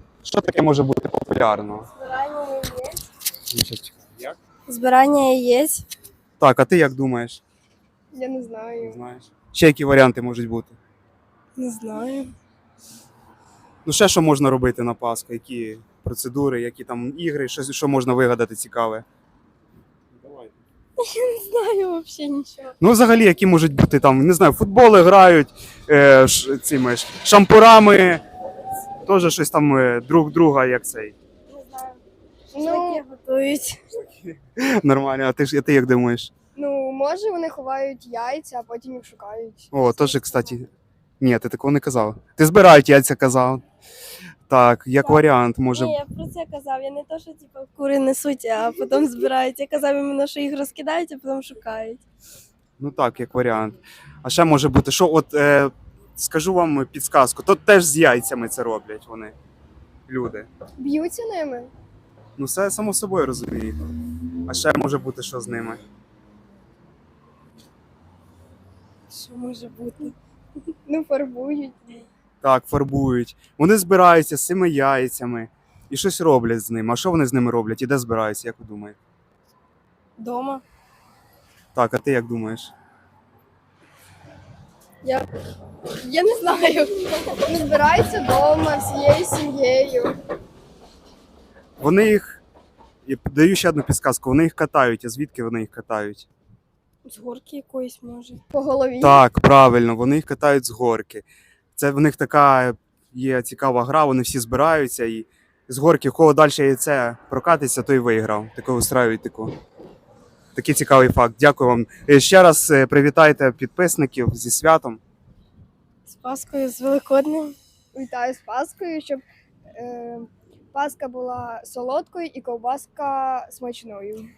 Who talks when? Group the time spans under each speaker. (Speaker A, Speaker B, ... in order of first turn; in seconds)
Speaker A: 0.2-1.9, 3.5-4.4, 6.4-7.4, 8.8-10.8, 13.8-19.0, 20.2-20.5, 22.8-28.2, 29.0-31.1, 34.0-36.3, 39.7-40.7, 41.2-43.6, 44.5-46.0, 52.8-59.3, 60.1-60.5, 62.4-63.8, 64.5-65.8, 72.4-79.0, 81.7-82.7, 91.8-92.4, 93.0-96.3, 99.0-109.5, 110.5-115.0
Speaker B: 1.9-3.0, 4.7-5.8, 11.6-12.3, 21.0-22.7, 31.5-32.0, 32.5-33.8, 45.0-52.0, 69.1-70.1, 80.2-80.6, 85.0-85.3, 86.0-87.4, 97.0-98.4, 116.1-117.5
Speaker C: 8.1-9.0, 32.5-33.0, 36.5-40.4, 60.8-61.7, 70.8-72.1, 87.4-90.2, 98.5-99.2, 117.9-119.2, 119.7-124.3